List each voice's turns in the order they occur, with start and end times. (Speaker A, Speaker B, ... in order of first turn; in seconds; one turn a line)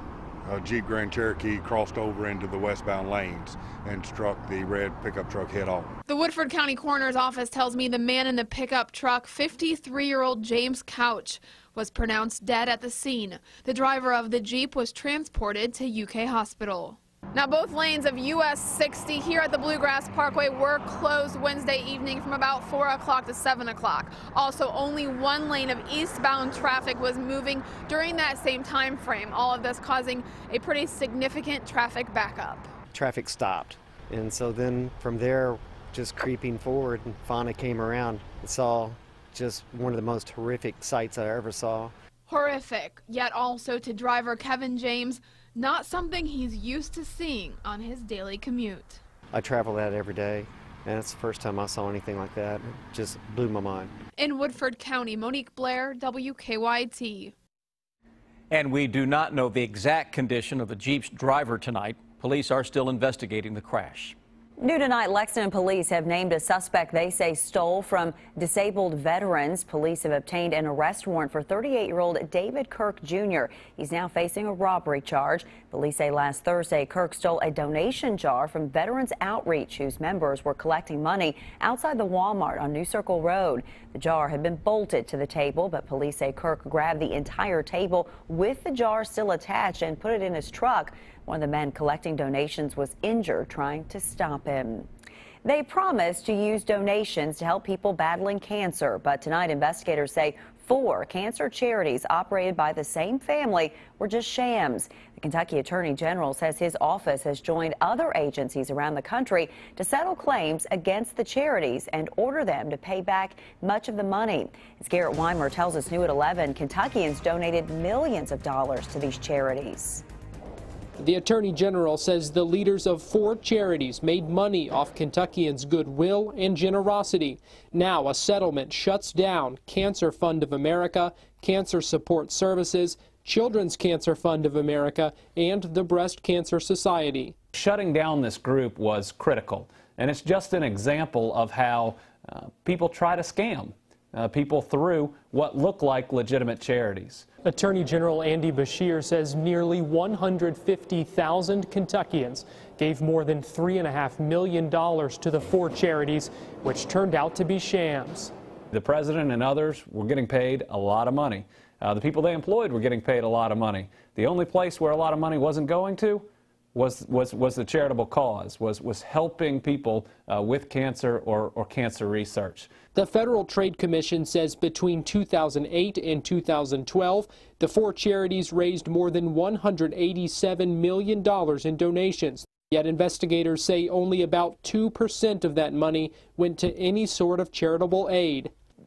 Speaker A: 0.4-5.9
Speaker B: 6.0-32.8
Speaker C: 32.9-41.9
Speaker B: 42.3-49.0
Speaker C: 49.3-53.9
Speaker B: 54.2-57.3
Speaker D: 58.5-64.2
Speaker E: 64.6-94.9
Speaker E: 95.4-120.0
Speaker F: 121.0-137.3
Speaker G: 137.5-147.3
Speaker F: 147.4-158.3
Speaker G: 158.7-172.8
Speaker F: 172.9-188.5